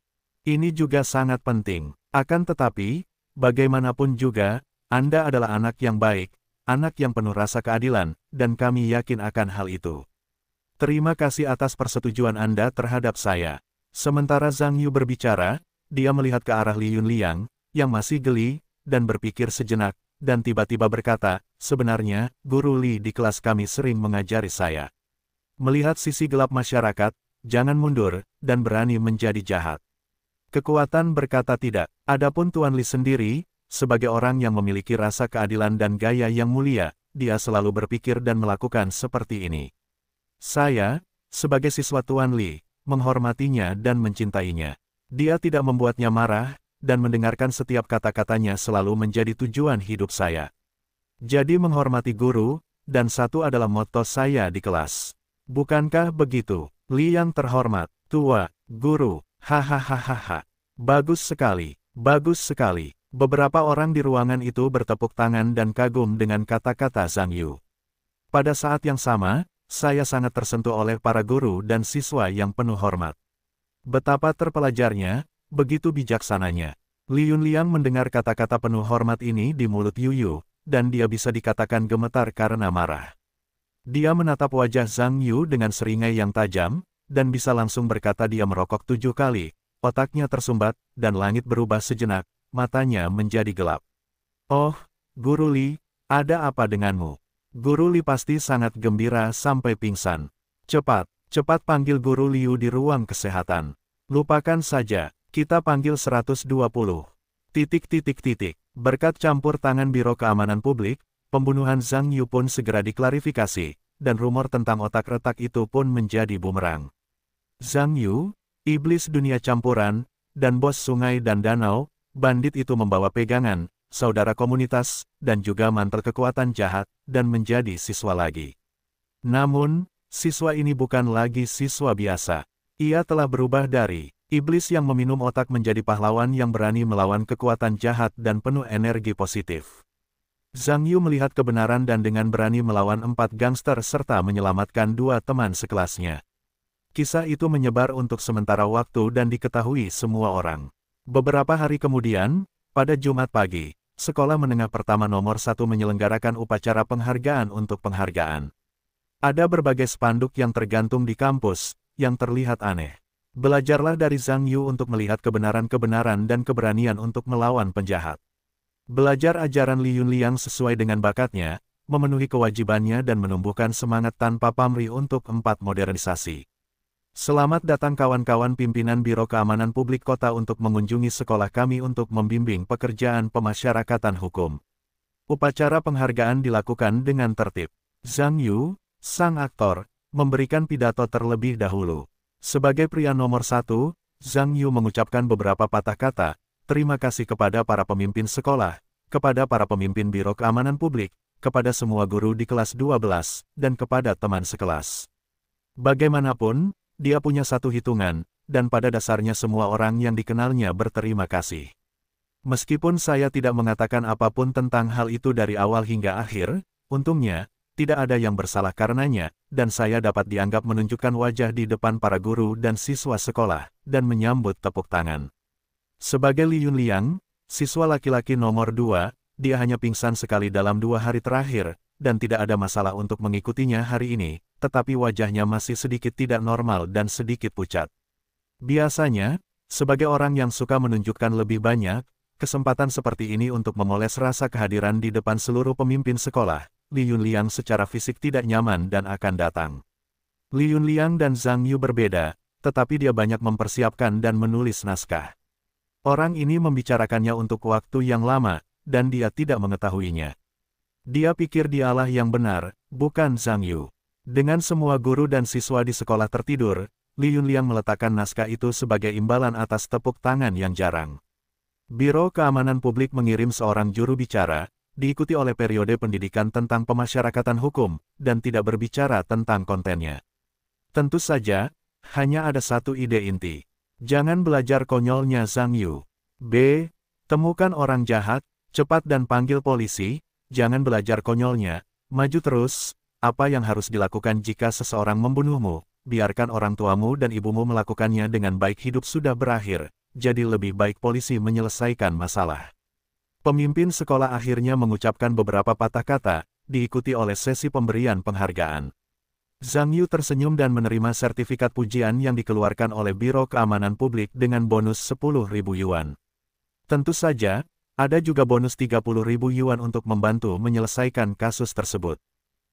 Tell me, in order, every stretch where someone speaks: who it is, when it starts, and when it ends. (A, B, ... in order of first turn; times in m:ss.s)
0:00.5-0:10.0 A
0:10.8-0:24.9 A
0:25.6-0:29.8 A
0:30.5-0:39.7 A
0:40.4-0:50.5 A
0:51.2-1:07.6 A
1:08.3-1:13.2 A
1:13.9-1:23.1 A
1:23.9-1:33.8 A
1:34.5-1:56.9 A
1:57.6-2:08.5 A
2:09.3-2:19.8 A
2:20.6-2:26.2 A
2:27.0-2:38.5 A
2:39.2-2:48.2 A
2:48.9-2:56.4 A
2:57.2-3:04.6 A
3:05.3-3:25.1 A
3:25.8-3:31.7 A
3:32.5-3:45.3 A
3:46.0-3:57.9 A
3:58.6-4:09.8 A
4:10.6-4:15.3 A
4:16.1-4:20.3 A
4:21.1-4:31.2 A
4:31.9-4:40.2 A
4:40.9-5:02.7 A
5:03.4-5:08.9 A
5:09.6-5:16.1 A
5:16.9-5:22.2 A